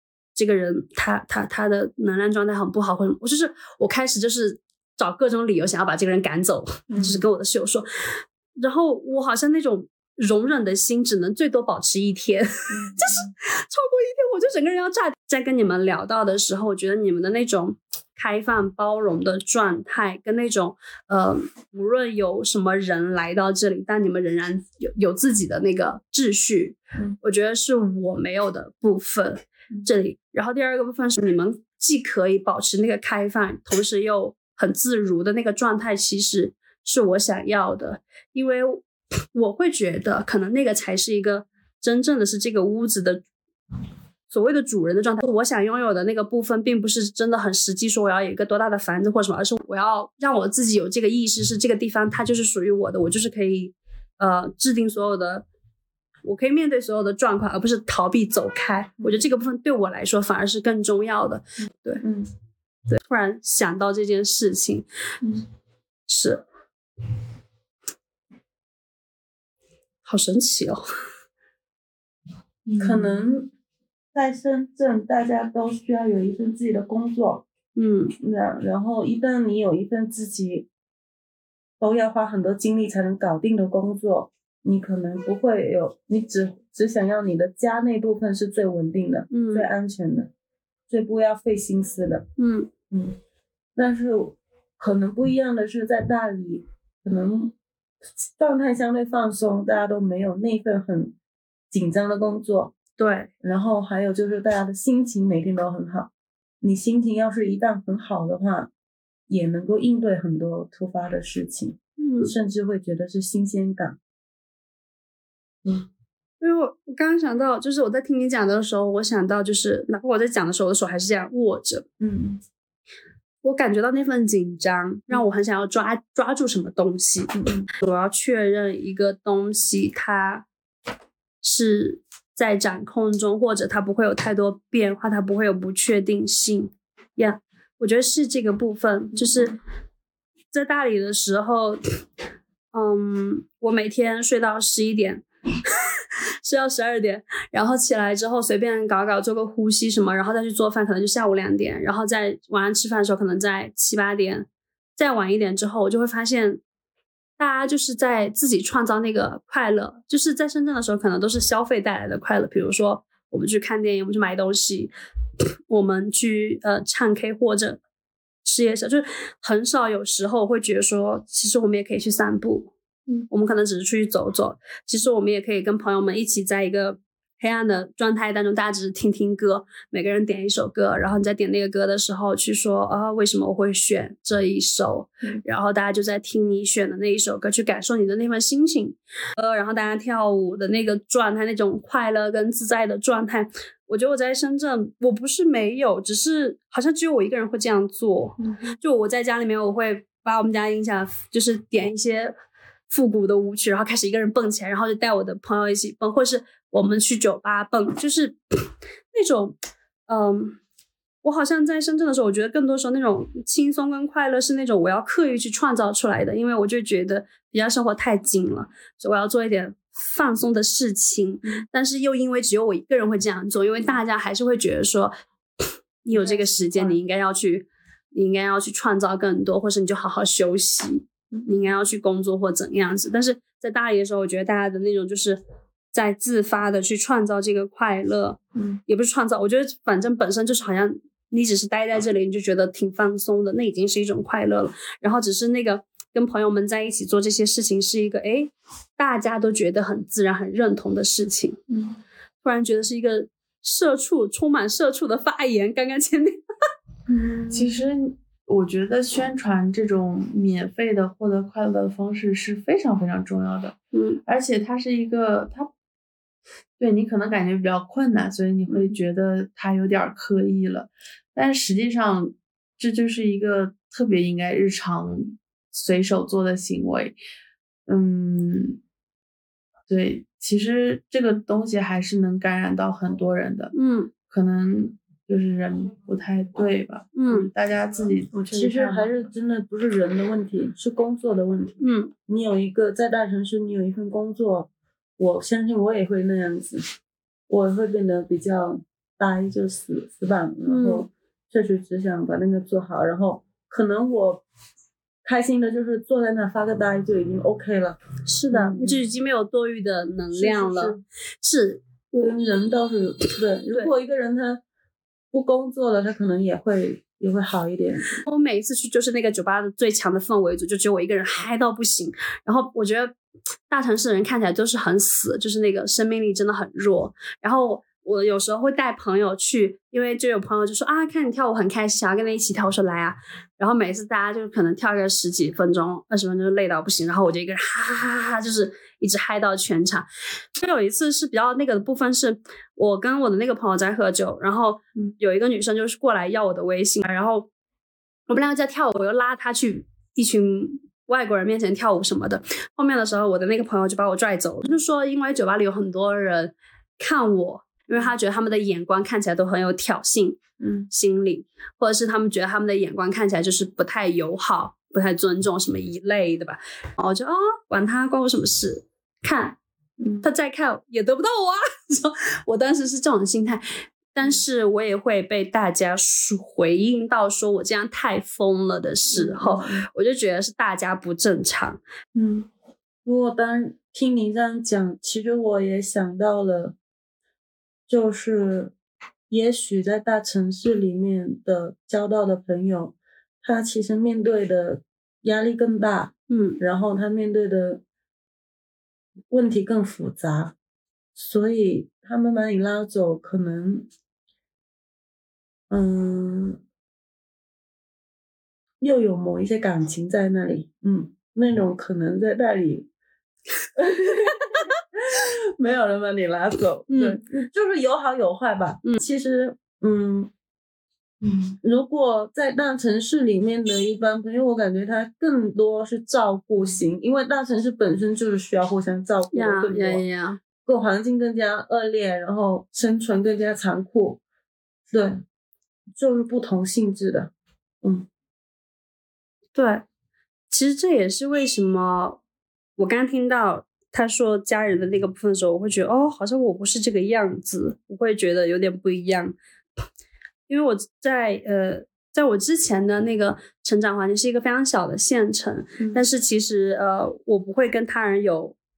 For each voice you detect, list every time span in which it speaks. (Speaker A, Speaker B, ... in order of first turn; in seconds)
Speaker A: 0.3-43.2, 44.3-55.5, 56.2-62.0, 62.9-64.9, 66.1-66.4, 70.0-70.8, 77.8-78.1, 89.3-89.7, 92.4-92.7, 103.0-103.3, 112.0-112.3, 116.4-121.8, 123.4-130.4, 131.4-139.6, 140.5-141.8, 142.7-145.8, 146.4-156.6, 157.4-164.9, 165.7-167.8, 168.4-172.7, 173.3-202.3, 202.9-209.6, 210.1-210.6, 211.2-235.4, 235.9-251.6, 252.4-256.4, 263.9-264.2, 283.8-284.1, 287.2-287.5, 291.8-292.1, 300.7-301.1, 308.2-312.4, 318.3-323.1, 323.7-347.5, 348.3-360.4, 360.9-369.6, 370.2-381.8, 396.3-396.6, 416.9-417.2, 429.3-430.4, 439.6-439.8, 440.5-442.2, 442.8-449.4, 450.5-458.6
Speaker B: 6.9-7.2, 12.7-13.3, 59.0-59.2, 62.0-62.3, 72.8-73.5, 74.1-77.5, 78.2-80.7, 81.8-90.3, 90.9-92.3, 92.9-93.2, 93.8-97.5, 98.2-101.2, 101.7-102.8, 103.4-106.1, 106.6-108.7, 109.3-114.0, 122.0-122.4, 127.3-127.7, 139.2-139.6, 198.4-198.8, 226.1-227.0, 231.3-231.7, 238.6-238.8, 257.1-257.7, 268.7-269.0, 288.3-296.9, 297.5-304.4, 305.2-309.0, 310.3-311.0, 312.2-314.6, 315.3-318.2, 360.6-360.9, 370.0-370.3, 379.1-379.9, 382.1-382.5, 383.1-386.8, 387.9-388.7, 389.3-397.8, 399.3-400.6, 401.1-403.9, 405.7-406.6, 408.8-412.9, 413.8-420.3, 421.6-430.0, 430.6-434.2, 434.9-435.2, 435.9-438.1
Speaker C: 72.7-73.2, 257.5-265.7, 266.8-277.2, 277.9-278.8, 279.9-283.7, 284.3-289.1, 421.2-421.5